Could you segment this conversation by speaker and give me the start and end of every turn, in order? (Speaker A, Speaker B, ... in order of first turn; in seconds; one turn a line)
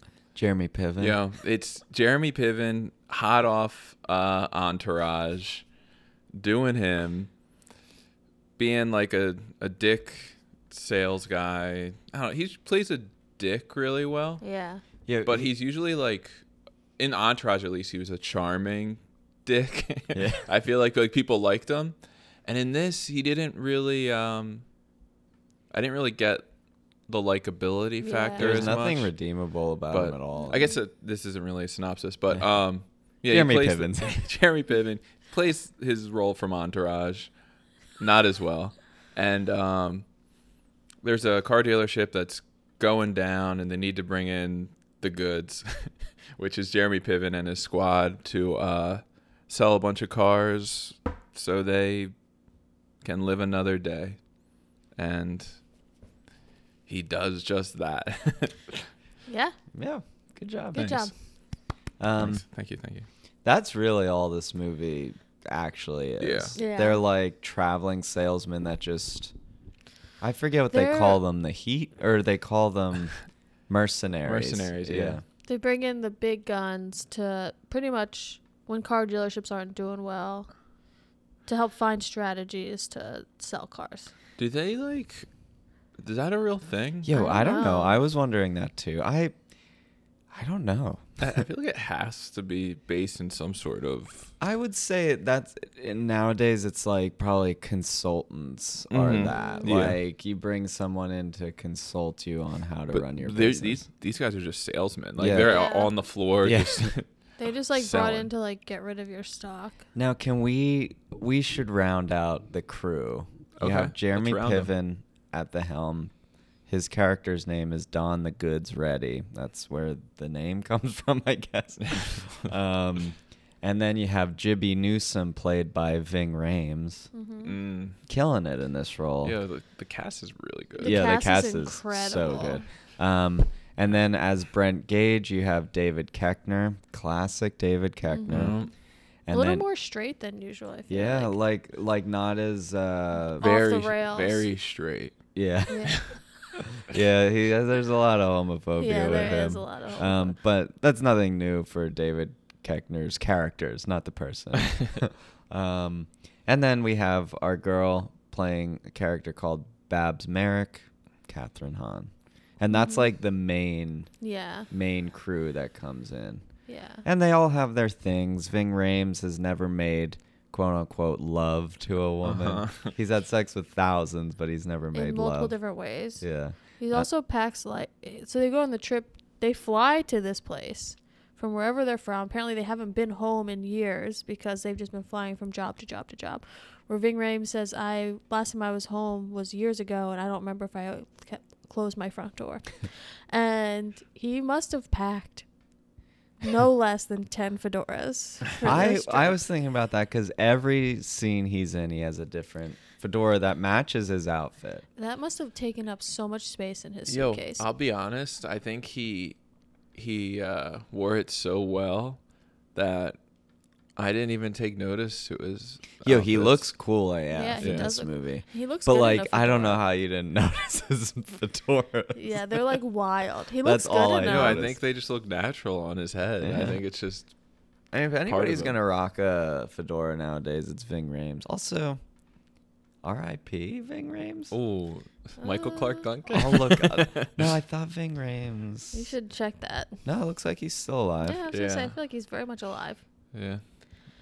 Speaker A: 0.3-1.2
Speaker B: 1.0-5.7
Speaker B: 6.3-7.3
Speaker B: 8.6-14.4
Speaker C: 14.4-14.8
Speaker A: 15.1-15.5
Speaker B: 15.2-16.4
Speaker B: 17.0-21.9
Speaker A: 20.1-20.4
Speaker B: 22.4-24.6
Speaker B: 25.7-26.5
Speaker B: 27.1-29.1
Speaker C: 28.0-28.7
Speaker A: 28.4-30.7
Speaker B: 29.9-37.3
Speaker C: 30.4-30.7
Speaker A: 33.3-34.2
Speaker B: 38.0-40.1
Speaker B: 41.0-52.1
Speaker B: 53.0-54.2
Speaker B: 54.9-55.6
Speaker B: 56.9-58.9
Speaker C: 59.3-59.5
Speaker A: 59.7-61.0
Speaker C: 60.7-61.1
Speaker B: 60.7-61.1
Speaker A: 62.0-62.4
Speaker B: 62.2-63.1
Speaker A: 63.4-69.3
Speaker B: 66.2-66.5
Speaker C: 66.5-67.0
Speaker A: 70.2-73.2
Speaker C: 70.7-71.2
Speaker A: 73.7-75.2
Speaker B: 74.2-75.2
Speaker C: 75.5-80.5
Speaker C: 81.5-84.1
Speaker B: 84.4-85.3
Speaker B: 86.0-87.1
Speaker A: 87.0-89.3
Speaker C: 87.1-88.0
Speaker A: 90.3-91.4
Speaker B: 91.2-94.3
Speaker A: 94.4-103.8
Speaker B: 98.9-100.0
Speaker C: 99.2-99.7
Speaker B: 102.9-107.1
Speaker A: 105.2-105.7
Speaker C: 105.4-105.9
Speaker A: 106.4-107.0
Speaker C: 107.4-109.8
Speaker B: 107.7-108.3
Speaker A: 109.9-116.1
Speaker B: 113.6-114.7
Speaker A: 116.7-127.1
Speaker B: 121.8-122.3
Speaker C: 127.1-127.6
Speaker B: 127.4-128.0
Speaker A: 128.1-129.4
Speaker B: 129.2-131.1
Speaker C: 130.8-132.6
Speaker A: 130.8-138.6
Speaker C: 138.1-138.7
Speaker B: 138.3-138.7
Speaker A: 139.3-139.6
Speaker C: 139.3-141.3
Speaker A: 140.9-143.5
Speaker B: 143.4-145.2
Speaker C: 143.4-144.5
Speaker A: 145.3-146.1
Speaker C: 145.7-146.1
Speaker B: 145.8-146.2
Speaker A: 146.7-164.1
Speaker C: 148.8-150.3
Speaker C: 162.7-163.1
Speaker C: 164.2-164.7
Speaker A: 164.7-166.4
Speaker C: 166.7-167.0
Speaker A: 167.0-175.6
Speaker B: 172.2-172.9
Speaker C: 174.9-176.2
Speaker A: 176.2-177.1
Speaker C: 176.8-195.4
Speaker C: 196.4-199.4
Speaker A: 198.6-204.8
Speaker C: 204.9-207.7
Speaker B: 207.1-209.4
Speaker B: 209.9-212.2
Speaker B: 212.7-213.2
Speaker B: 213.9-216.7
Speaker A: 216.0-222.8
Speaker C: 217.3-219.8
Speaker B: 217.6-217.9
Speaker C: 222.1-224.7
Speaker A: 223.6-224.8
Speaker B: 224.2-227.3
Speaker A: 226.4-226.8
Speaker A: 227.9-232.0
Speaker B: 228.2-228.7
Speaker A: 233.0-234.5
Speaker B: 234.5-237.5
Speaker C: 235.4-236.1
Speaker A: 236.3-239.1
Speaker C: 238.9-240.0
Speaker A: 240.0-241.4
Speaker C: 241.2-243.0
Speaker B: 241.5-241.9
Speaker B: 243.3-243.6